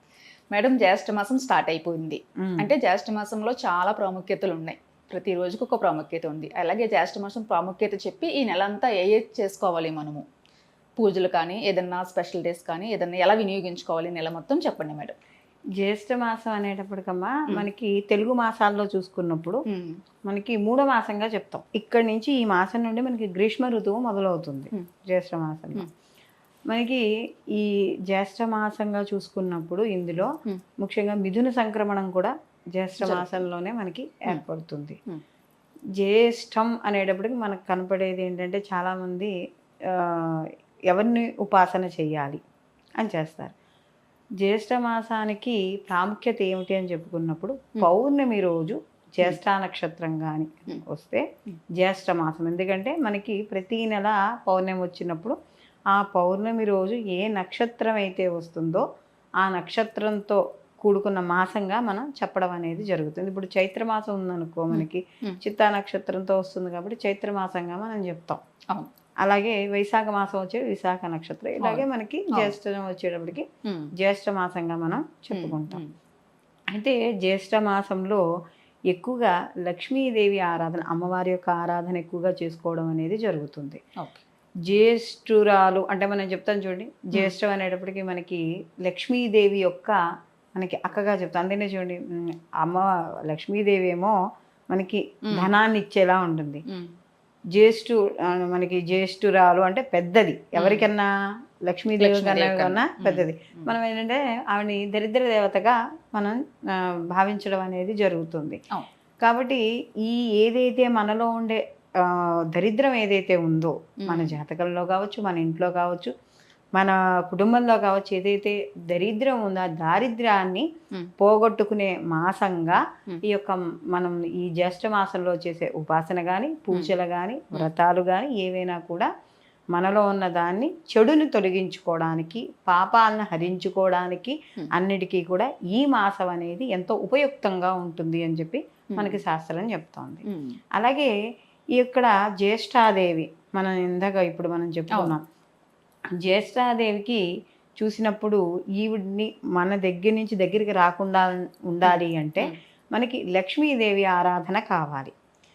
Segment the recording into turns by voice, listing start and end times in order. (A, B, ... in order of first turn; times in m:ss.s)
0:00.5-0:10.2 A
0:02.4-0:02.7 B
0:11.0-0:15.2 A
0:15.8-0:19.6 B
0:19.7-0:20.0 A
0:20.3-0:25.9 B
0:26.7-0:35.0 B
0:33.0-0:33.4 A
0:36.0-0:39.3 B
0:39.9-0:42.4 B
0:43.0-0:43.5 B
0:44.4-0:51.2 B
0:51.8-0:55.4 B
0:55.9-0:58.8 B
0:59.4-1:08.4 B
1:04.7-1:05.4 A
1:09.2-1:13.5 B
1:11.6-1:12.5 A
1:13.6-1:13.9 A
1:14.0-1:15.8 B
1:15.3-1:15.9 A
1:16.7-1:18.2 B
1:18.9-1:23.8 B
1:24.7-1:30.0 B
1:30.6-1:34.1 B
1:34.7-1:36.6 B
1:35.3-1:35.5 A
1:37.5-1:41.1 B
1:40.6-1:40.9 A
1:41.7-1:48.6 B
1:42.0-1:43.7 A
1:49.2-1:56.1 B
1:54.0-1:54.4 A
1:56.8-2:00.7 B
2:01.2-2:09.1 B
2:09.7-2:20.2 B
2:18.9-2:19.2 A
2:20.2-2:20.6 A
2:20.8-2:21.1 B
2:21.8-2:25.2 B
2:26.1-2:27.2 B
2:27.8-2:35.1 B
2:31.8-2:32.5 A